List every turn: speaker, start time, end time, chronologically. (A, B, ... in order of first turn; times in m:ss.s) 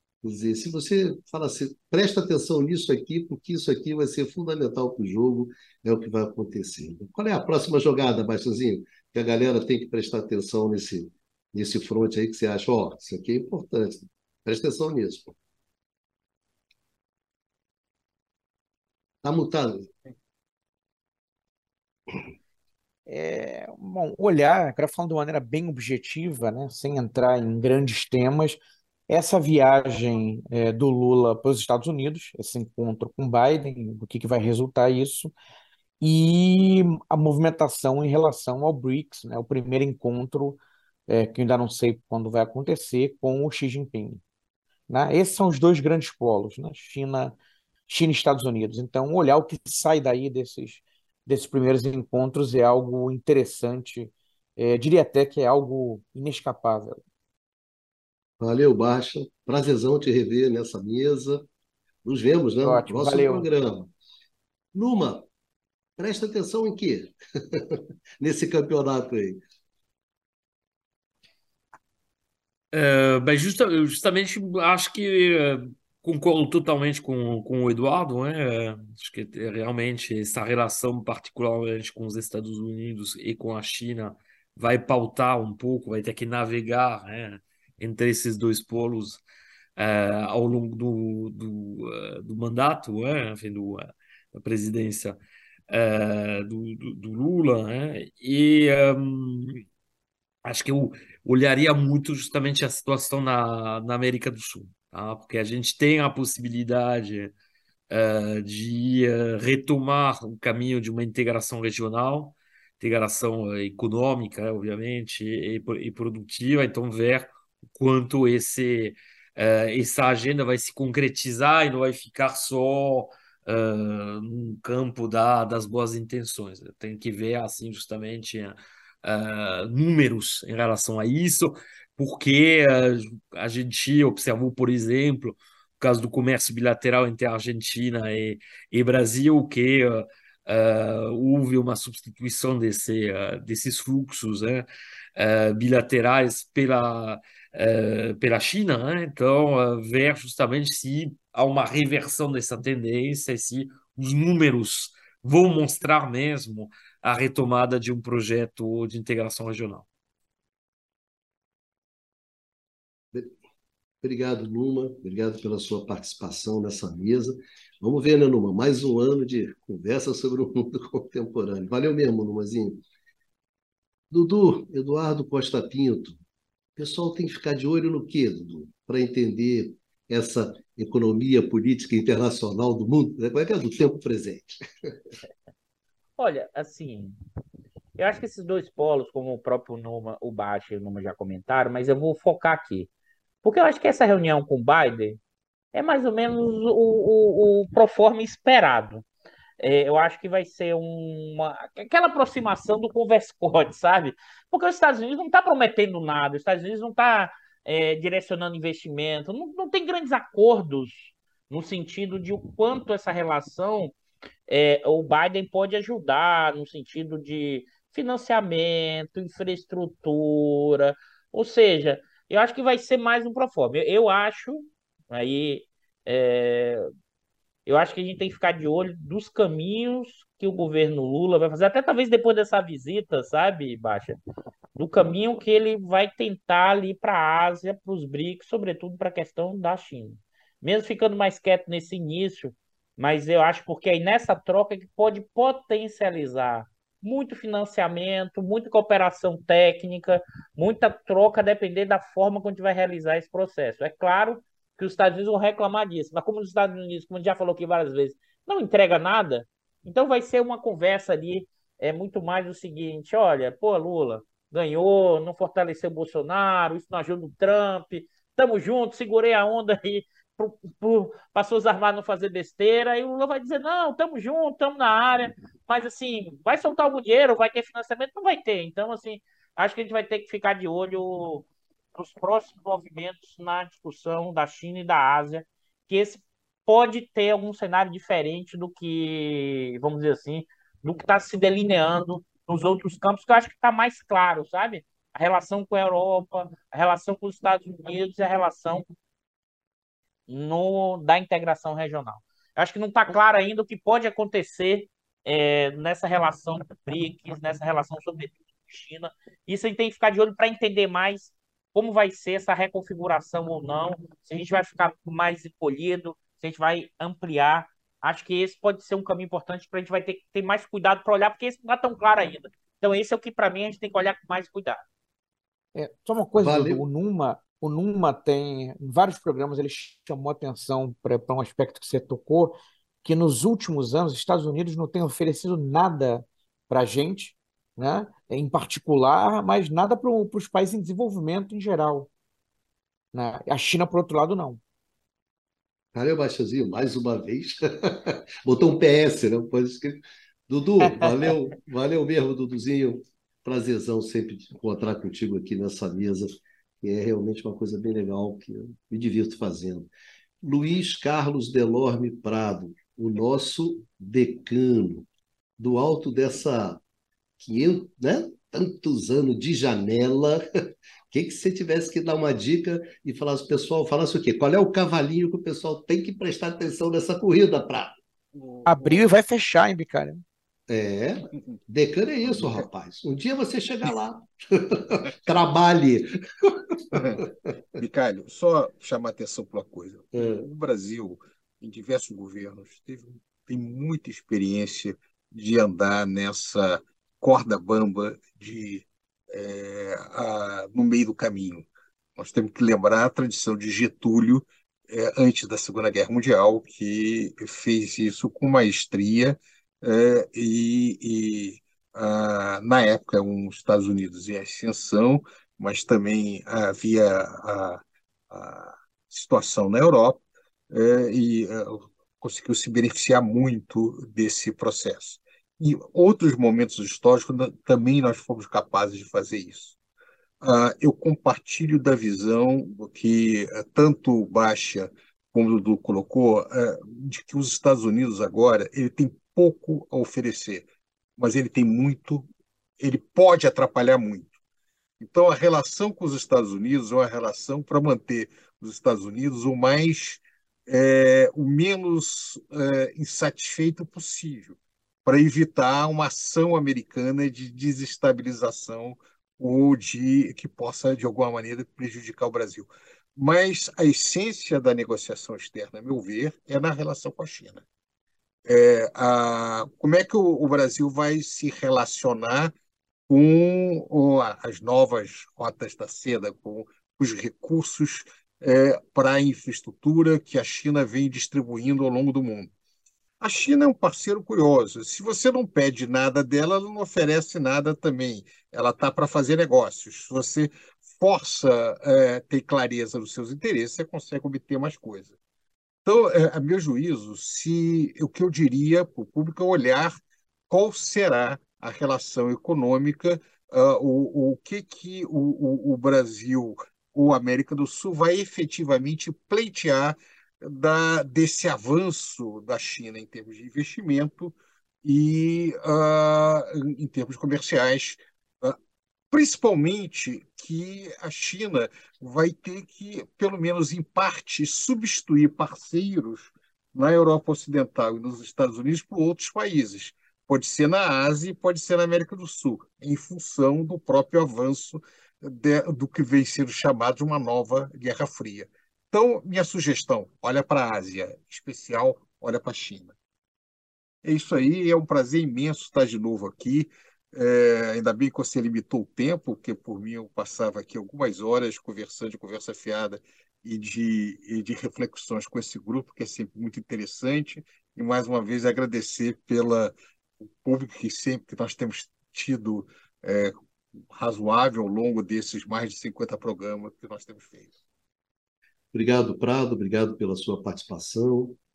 0:00.2-0:15.4 A
0:19.2-0:20.0 A
0:23.1-0:35.3 B
0:36.0-0:44.2 B
0:44.9-0:47.4 B
0:47.9-0:57.0 B
0:58.4-1:01.5 A
1:02.0-1:03.9 A
1:02.6-1:03.4 B
1:04.7-1:05.3 A
1:06.0-1:09.4 A
1:12.7-1:29.2 C
1:29.8-1:35.2 C
1:35.7-1:39.6 C
1:40.4-1:47.3 C
1:47.9-2:39.9 C
2:44.0-2:52.8 A
2:54.1-2:56.2 A
2:56.8-3:04.6 A
3:06.2-3:07.2 D
3:08.0-3:12.9 D
3:13.4-3:15.2 D
3:15.7-3:19.1 D
3:19.6-3:34.0 D
3:34.5-3:46.9 D
3:47.7-3:54.2 D
3:54.7-4:58.8 D
5:00.3-5:24.8 D
5:25.7-5:42.1 B
5:26.4-5:26.8 A
5:43.1-5:44.6 B
5:45.9-5:59.9 A
5:50.8-5:51.3 B
6:00.4-6:05.1 A
6:05.6-6:06.8 A
6:07.4-6:10.4 A
6:11.1-6:18.0 A
6:18.3-6:19.0 E
6:18.7-6:20.2 B
6:20.7-6:27.3 A
6:22.2-6:22.7 E
6:26.9-6:27.2 E
6:27.8-7:09.8 E
6:30.2-6:30.5 A
7:10.4-7:20.6 E
7:21.2-7:22.3 E
7:22.8-7:24.3 E
7:25.0-7:47.6 E
7:48.4-7:52.5 E
7:53.1-8:02.5 E
8:03.2-8:15.1 E
8:15.8-8:38.6 E
8:39.1-9:03.0 E
9:04.0-9:19.7 E
9:20.4-9:23.3 E
9:23.9-9:27.5 E
9:28.7-9:31.4 A